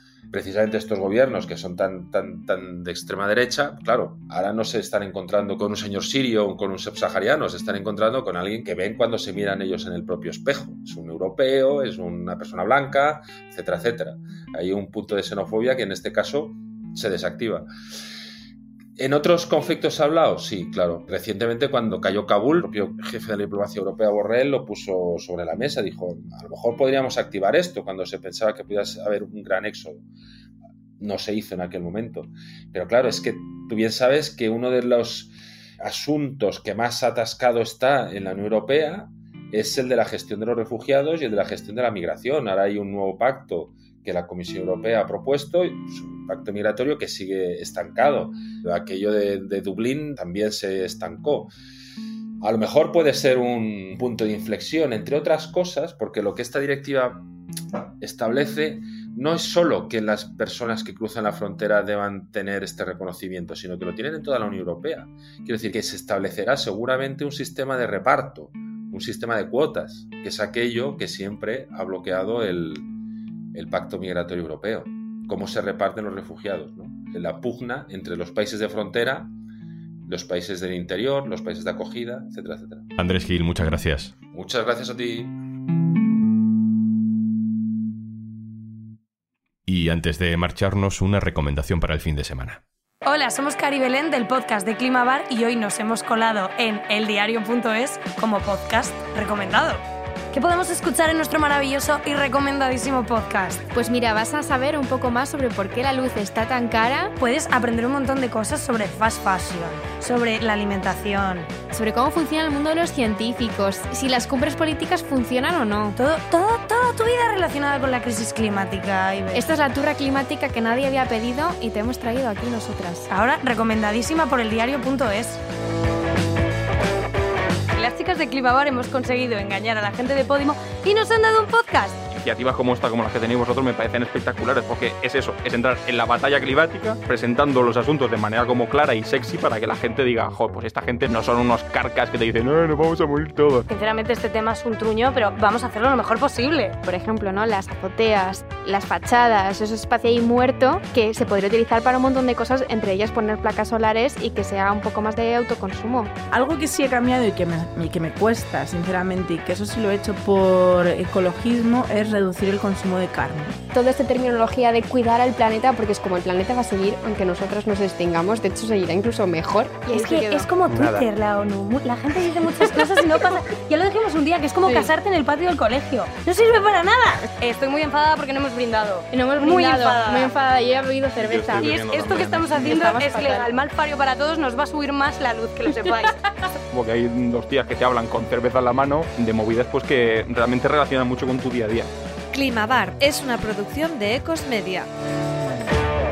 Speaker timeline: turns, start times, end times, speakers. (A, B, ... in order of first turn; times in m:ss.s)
0:00.3-0:17.7 A
0:19.0-0:30.0 A
0:31.0-0:51.5 A
0:52.4-0:57.2 A
0:58.0-1:12.9 A
1:13.5-1:19.3 A
1:20.1-1:22.9 A
1:23.0-1:24.1 B
1:24.3-1:25.4 A
1:29.7-1:32.6 B
1:33.0-1:39.8 C
1:40.3-1:43.6 C
1:43.7-1:47.1 D
1:47.2-1:51.6 C
1:51.7-1:56.0 D
1:56.0-1:59.5 C
1:59.3-2:03.1 D
2:03.1-2:05.4 C
2:07.8-2:12.0 C
2:12.2-2:23.6 E
2:23.7-2:26.8 C
2:26.8-2:36.1 D
2:36.3-2:43.6 F
2:43.7-2:50.5 D
2:49.9-3:00.4 C
2:54.6-2:54.9 D
2:59.1-3:01.8 D
3:01.3-3:02.4 E
3:01.6-3:06.2 C
3:02.3-3:03.6 D
3:06.8-3:11.9 E
3:12.3-3:14.9 G